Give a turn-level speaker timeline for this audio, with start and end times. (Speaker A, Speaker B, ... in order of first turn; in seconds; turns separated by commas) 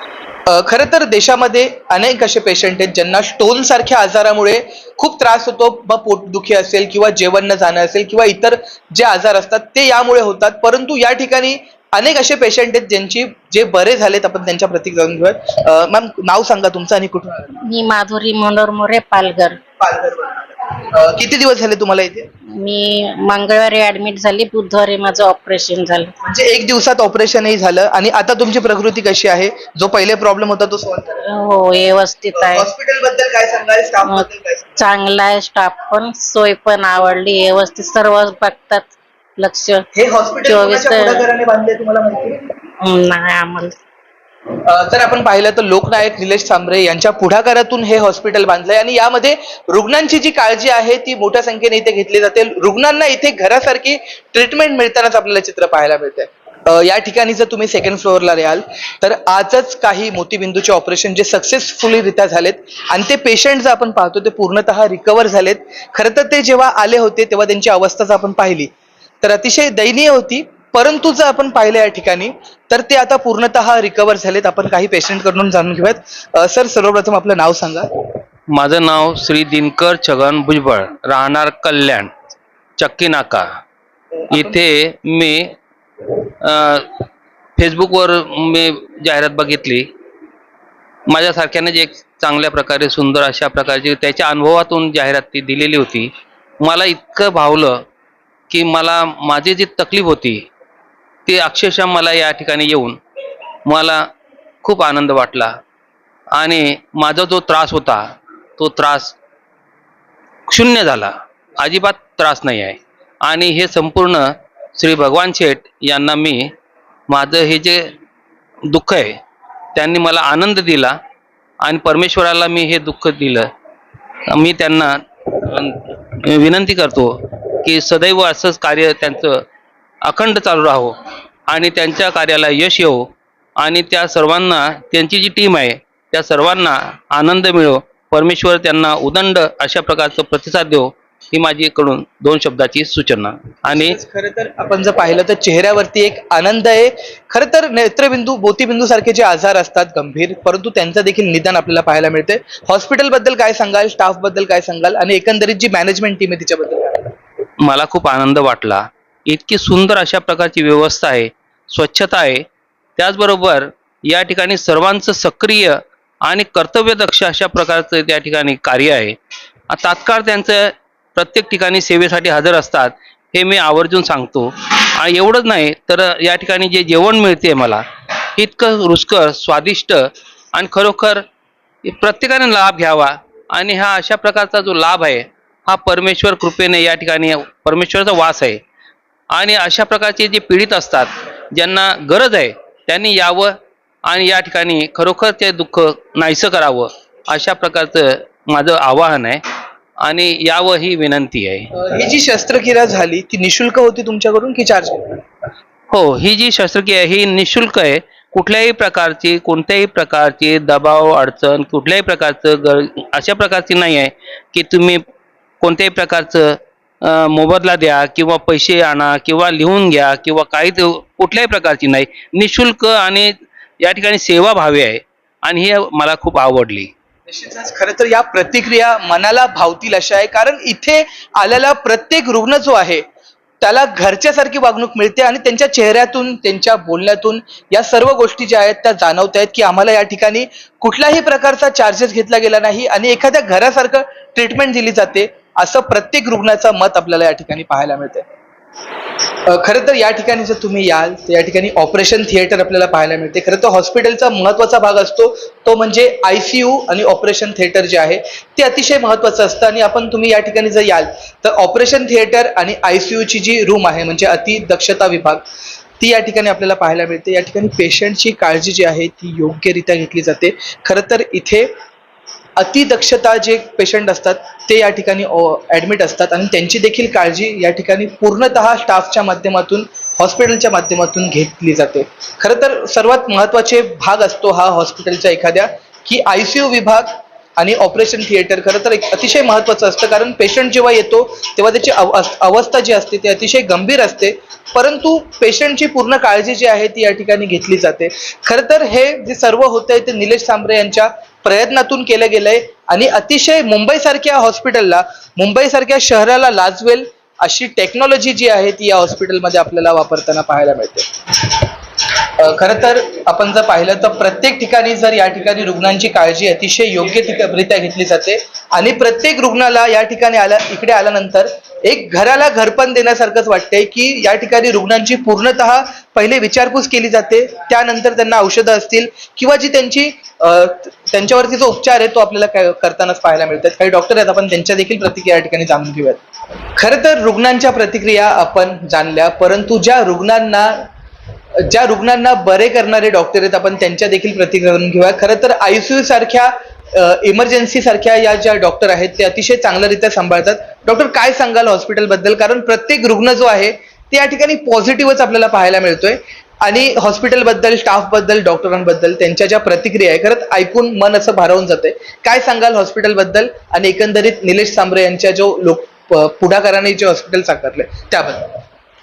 Speaker A: 0.5-17.6, Speaker B: 17.6-19.6, Speaker A: 19.8-22.3, Speaker B: 22.5-26.2, Speaker A: 26.2-31.2, Speaker B: 31.2-32.7, Speaker A: 32.4-34.8, Speaker B: 34.8-39.9, Speaker A: 39.9-42.5, Speaker B: 40.5-41.3, Speaker B: 42.8-43.8, Speaker A: 44.6-77.9, Speaker C: 78.5-82.1, Speaker C: 82.8-83.6, Speaker C: 84.3-85.5, Speaker C: 86.4-87.0, Speaker C: 87.6-89.9, Speaker C: 91.1-96.1, Speaker C: 96.6-97.8, Speaker C: 98.5-100.5, Speaker C: 101.3-103.0, Speaker C: 103.7-104.1, Speaker C: 104.6-105.6, Speaker C: 106.3-108.1, Speaker C: 108.6-109.2, Speaker C: 110.5-116.5, Speaker C: 117.1-117.9, Speaker C: 118.7-119.2, Speaker C: 119.8-121.0, Speaker C: 121.6-123.5, Speaker C: 124.3-129.4, Speaker C: 130.0-144.0, Speaker A: 143.6-157.1, Speaker C: 157.6-162.5, Speaker C: 163.0-169.2, Speaker C: 169.7-181.2, Speaker C: 181.8-188.6, Speaker C: 189.3-199.4, Speaker C: 200.0-201.7, Speaker A: 201.8-205.2, Speaker C: 205.9-215.0, Speaker C: 215.6-226.9, Speaker A: 227.3-233.1, Speaker A: 233.6-248.3, Speaker A: 249.5-265.4, Speaker A: 266.0-271.7, Speaker A: 272.6-311.7, Speaker A: 312.2-336.2, Speaker A: 336.8-340.9, Speaker A: 341.6-368.6